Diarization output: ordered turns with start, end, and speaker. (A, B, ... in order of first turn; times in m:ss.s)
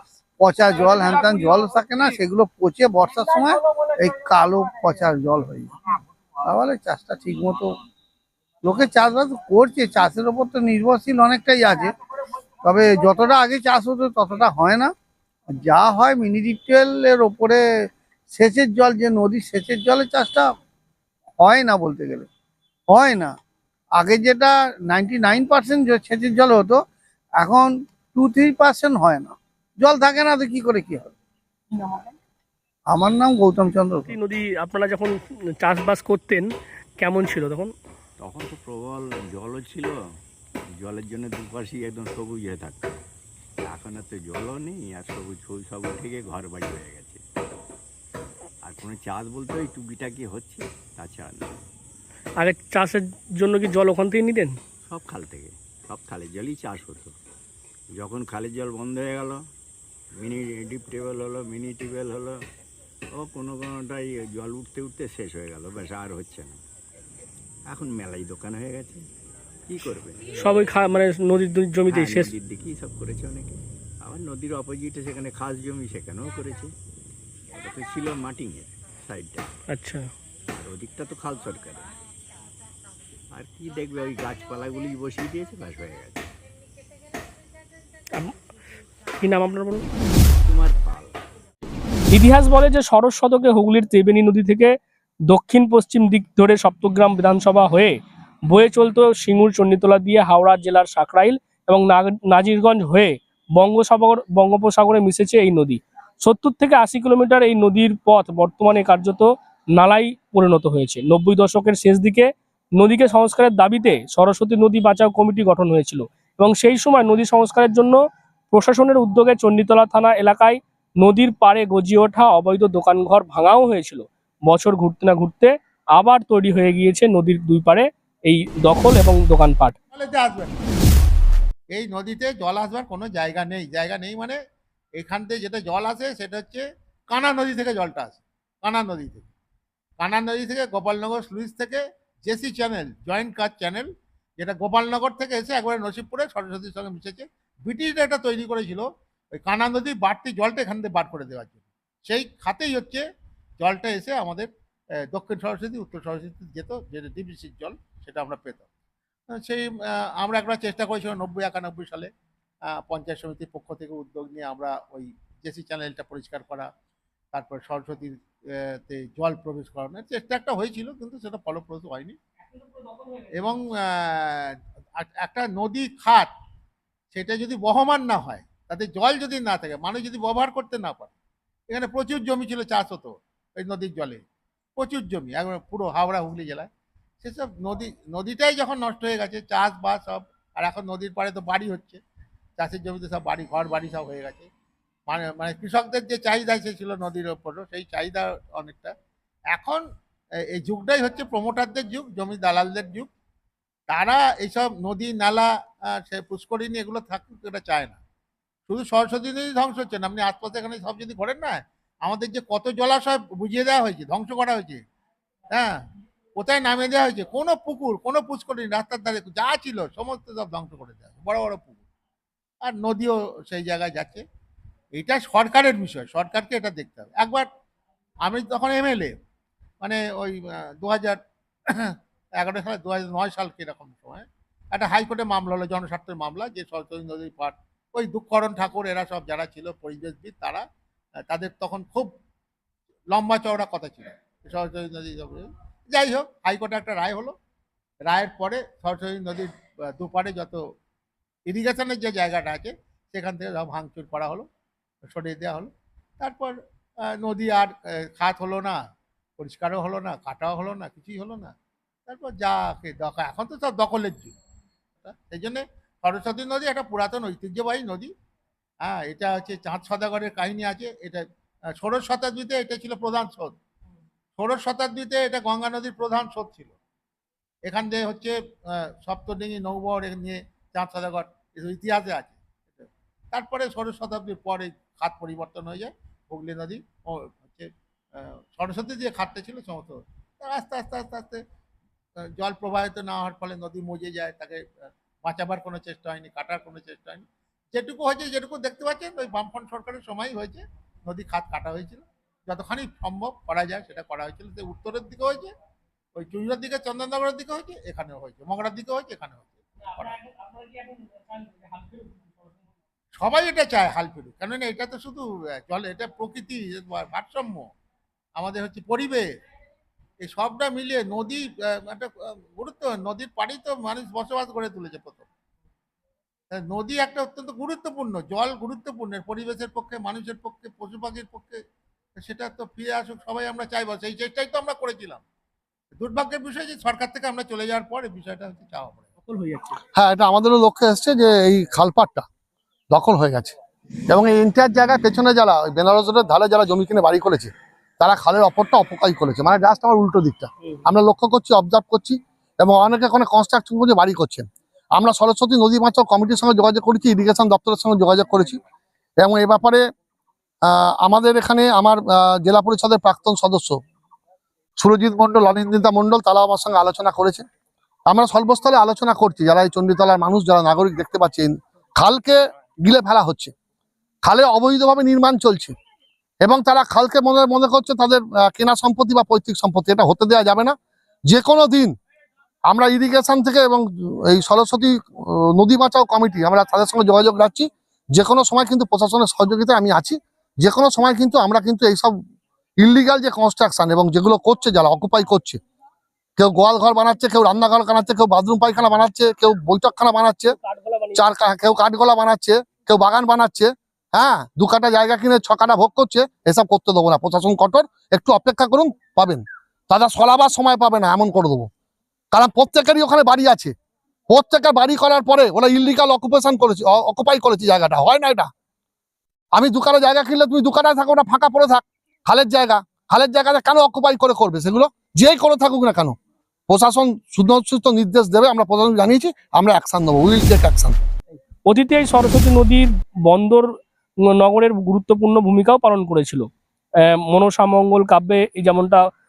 0:00.4-0:05.7 A
0:06.4-0:07.8 A
0:08.6-0:11.9 A
0:12.6-0:14.9 A
0:15.5-0:17.6 A
0:18.3-0:20.5 A
0:21.4-0:22.3 A
0:22.9-0:23.3 A
0:24.0-0:26.8 A
0:27.4-0:31.1 A
0:32.9-0:34.1 A
0:34.1-0:37.7 B
0:38.2-0:39.9 C
0:40.8-0:43.0 C
0:43.6-0:47.2 C
0:48.6-0:51.5 C
0:52.4-0:54.6 B
0:54.9-0:57.2 C
0:57.9-0:59.4 C
1:00.2-1:02.4 C
1:03.2-1:06.6 C
1:07.7-1:09.0 C
1:09.7-1:10.6 C
1:10.4-1:12.3 B
1:11.9-1:16.7 C
1:17.5-1:19.5 C
1:19.7-1:20.0 B
1:20.6-1:21.9 C
1:23.3-1:26.3 C
1:29.2-1:29.8 B
1:30.4-1:31.2 C
1:32.1-1:34.7 B
1:35.3-1:38.0 B
1:38.5-1:58.0 B
1:58.5-2:09.8 B
2:09.9-2:10.6 D
2:11.7-2:14.4 D
2:15.0-2:19.3 D
2:20.0-2:33.0 D
2:33.6-2:34.5 D
2:35.1-2:38.7 D
2:39.3-2:42.1 D
2:42.7-2:46.7 D
2:47.3-2:48.2 D
2:48.8-2:52.2 D
2:53.3-2:56.3 D
2:57.1-3:01.1 D
3:01.7-3:04.2 D
3:04.8-3:06.7 D
3:07.2-3:12.0 D
3:12.6-3:14.5 D
3:15.1-3:18.9 D
3:19.5-3:19.8 D
3:20.6-3:23.1 D
3:23.9-3:28.0 D
3:28.7-3:34.8 D
3:36.4-3:41.8 D
3:42.6-3:44.2 D
3:44.9-3:47.5 D
3:48.2-3:49.1 D
3:49.8-3:51.2 D
3:51.7-4:00.7 D
4:01.3-4:02.1 D
4:03.1-4:07.3 D
4:08.0-4:10.6 D
4:11.5-4:14.5 D
4:15.0-4:16.6 D
4:17.1-4:18.8 D
4:19.4-4:21.5 D
4:22.1-4:24.4 D
4:25.0-4:28.1 D
4:28.8-4:31.2 D
4:31.8-4:33.6 D
4:34.4-4:36.8 D
4:37.6-4:51.4 D
4:52.4-5:05.5 D
5:06.2-5:10.2 D
5:10.2-5:12.3 B
5:13.2-5:17.7 D
5:18.4-5:19.3 D
5:20.2-5:25.3 D
5:26.5-5:31.6 D
5:32.2-5:35.2 D
5:36.0-5:39.1 D
5:39.2-5:39.8 B
5:40.0-5:42.3 E
5:42.9-5:43.6 E
5:44.1-5:58.6 E
5:59.2-5:59.8 E
6:00.7-6:03.8 E
6:04.8-6:07.4 E
6:08.1-6:13.5 E
6:14.2-6:15.7 E
6:16.4-6:20.8 E
6:21.3-6:21.9 E
6:22.7-6:32.2 E
6:32.8-6:35.6 E
6:36.4-6:40.5 E
6:40.5-6:41.2 B
6:41.2-6:51.7 E
6:52.3-6:53.7 E
6:54.3-6:58.5 E
6:59.6-7:06.2 E
7:06.7-7:11.0 E
7:11.7-7:13.7 B
7:14.3-7:16.5 B
7:17.1-7:19.0 B